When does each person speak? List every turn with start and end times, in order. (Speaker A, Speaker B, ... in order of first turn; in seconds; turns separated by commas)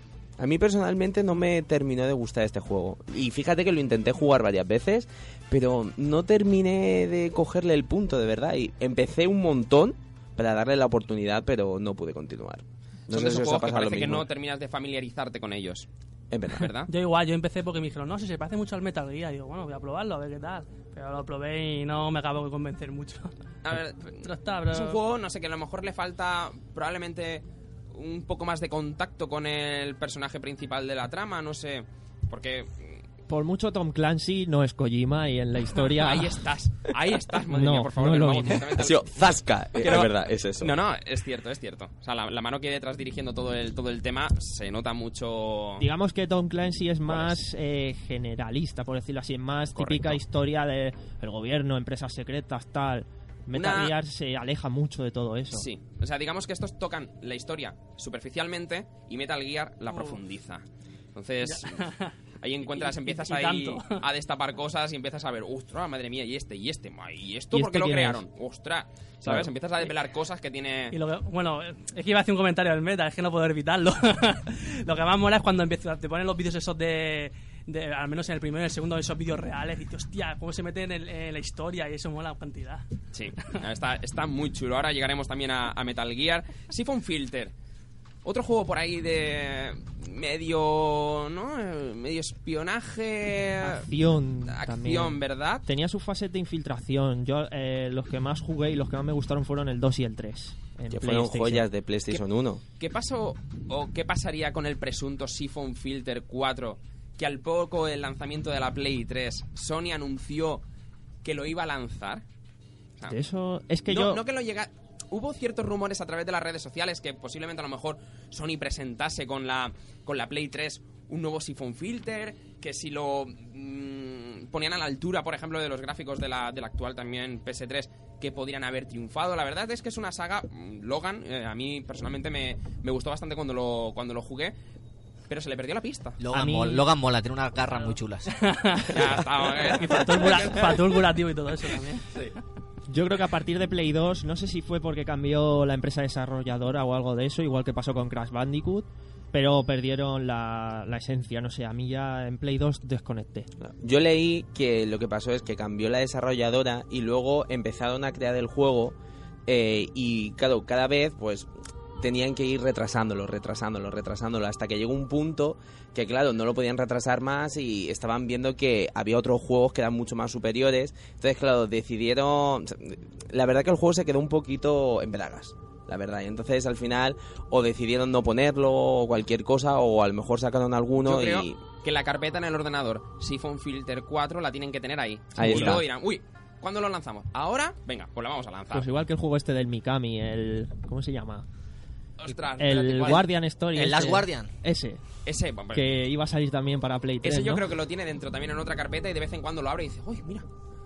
Speaker A: 0.4-14.2, Speaker B: 13.1-15.9, Speaker A: 16.3-16.7, Speaker B: 16.5-16.9, Speaker C: 16.9-23.3, Speaker B: 23.6-33.0, Speaker C: 24.2-25.0, Speaker D: 33.3-36.4, Speaker B: 36.0-39.1, Speaker D: 37.5-38.6, Speaker A: 38.7-40.8, Speaker B: 39.8-45.8, Speaker D: 45.8-55.6, Speaker B: 49.8-50.2, Speaker B: 53.5-53.9, Speaker B: 55.5-60.6, Speaker B: 61.1-61.8, Speaker C: 61.4-62.1, Speaker B: 62.4-71.0, Speaker C: 62.7-64.0, Speaker D: 67.5-68.2, Speaker C: 70.9-82.8, Speaker B: 83.1-87.5, Speaker B: 88.2-93.8, Speaker D: 93.6-101.7, Speaker B: 94.5-95.6, Speaker A: 100.9-102.6, Speaker B: 102.8-110.6, Speaker B: 111.2-112.2, Speaker D: 113.1-114.2, Speaker B: 113.9-134.5, Speaker B: 135.3-136.2, Speaker E: 136.2-138.3, Speaker D: 136.3-136.8, Speaker C: 138.3-138.9, Speaker B: 138.9-140.8, Speaker C: 139.7-142.1, Speaker D: 142.9-153.5, Speaker A: 153.6-158.9, Speaker A: 159.4-181.6, Speaker B: 181.0-188.9, Speaker A: 185.3-185.8, Speaker D: 185.4-185.8, Speaker D: 188.7-191.4, Speaker B: 192.2-193.2, Speaker D: 192.6-195.0, Speaker E: 193.7-194.5, Speaker B: 195.2-195.9, Speaker D: 195.7-197.6, Speaker B: 197.2-200.4